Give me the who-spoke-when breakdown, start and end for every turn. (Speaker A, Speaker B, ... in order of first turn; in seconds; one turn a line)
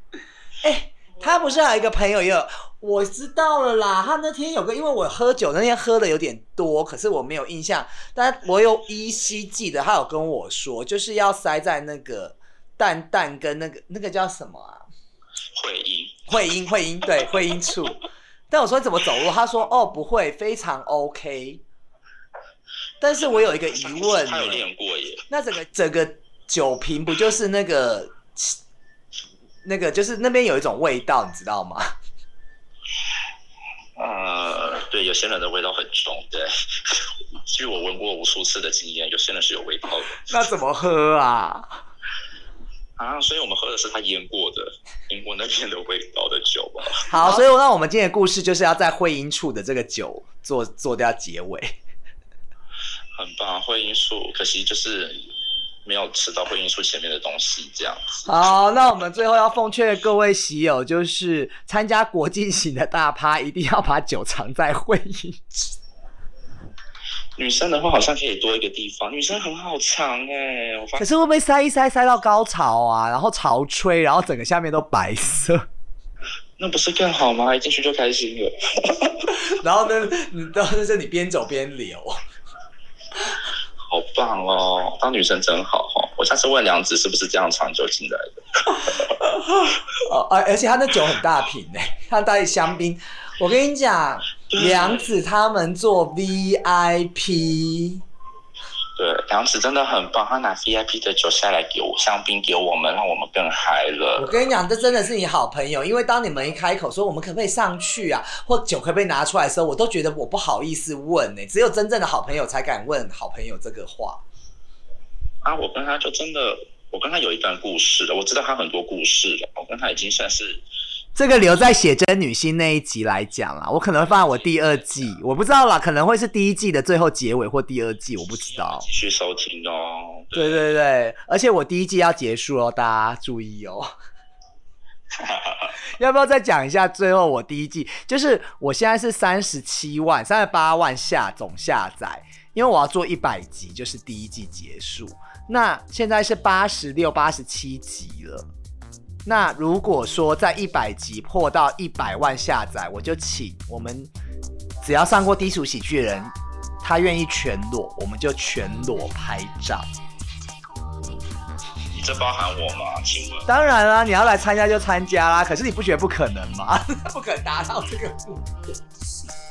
Speaker A: 0.6-14.8
Speaker B: 15.6-16.2
Speaker A: 16.3-21.6
Speaker A: 23.0-24.6
Speaker B: 23.4-25.2
Speaker A: 25.3-28.6
Speaker A: 29.6-31.9
Speaker B: 34.0-40.3
Speaker A: 40.2-41.8
Speaker B: 43.0-47.4
Speaker A: 47.1-51.8
Speaker B: 53.1-55.3
Speaker B: 55.8-58.4
Speaker A: 58.2-65.7
Speaker B: 67.4-71.0
Speaker A: 71.0-75.7
Speaker B: 76.6-79.5
Speaker A: 79.3-82.2
Speaker B: 83.8-89.1
Speaker A: 88.9-98.0
Speaker B: 94.5-95.1
Speaker B: 99.0-104.3
Speaker A: 104.2-114.2
Speaker B: 115.4-120.6
Speaker A: 121.2-128.9
Speaker B: 124.0-125.2
Speaker B: 128.4-130.7
Speaker A: 130.3-133.9
Speaker B: 135.1-135.8
Speaker A: 135.8-148.5
Speaker A: 149.2-154.1
Speaker A: 154.8-159.9
Speaker B: 161.9-163.5
Speaker A: 163.5-168.7